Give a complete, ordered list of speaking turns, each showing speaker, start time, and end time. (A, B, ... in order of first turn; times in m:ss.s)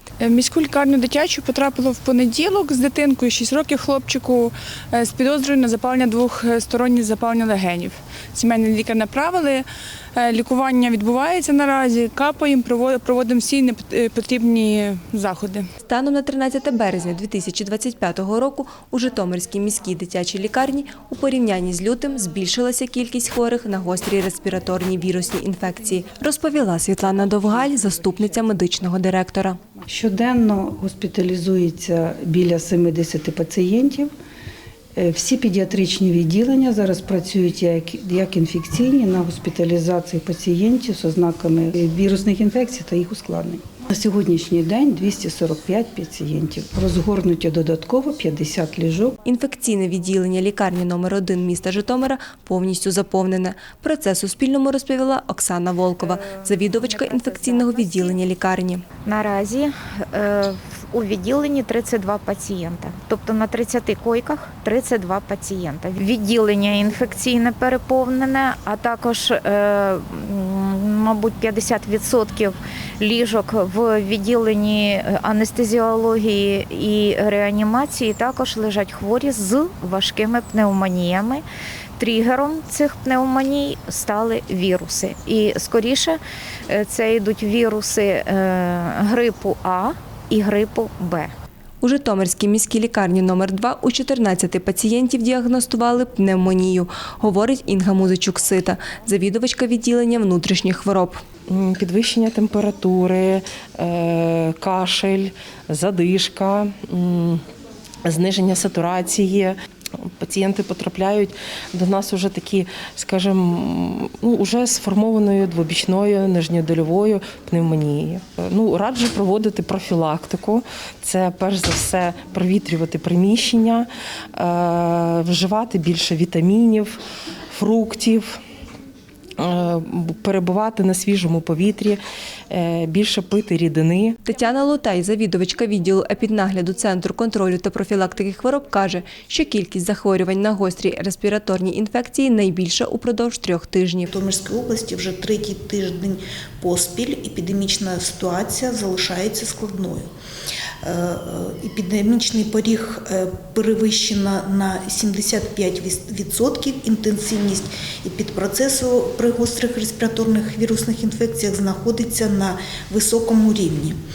0:00.2-0:15.7 A
0:15.8-0:29.6 B
0:29.9-0:34.1 C
0:35.0-0:49.2 C
0:49.2-0:58.8 B
0:56.0-0:58.2 D
0:59.0-1:21.4 D
1:22.0-1:31.3 D
1:31.8-1:41.2 B
1:41.5-1:47.4 E
1:48.0-2:07.0 E
2:07.5-2:08.4 E
2:09.4-2:14.2 E
2:14.2-2:24.1 B
2:24.1-2:30.1 F
2:30.8-2:44.0 F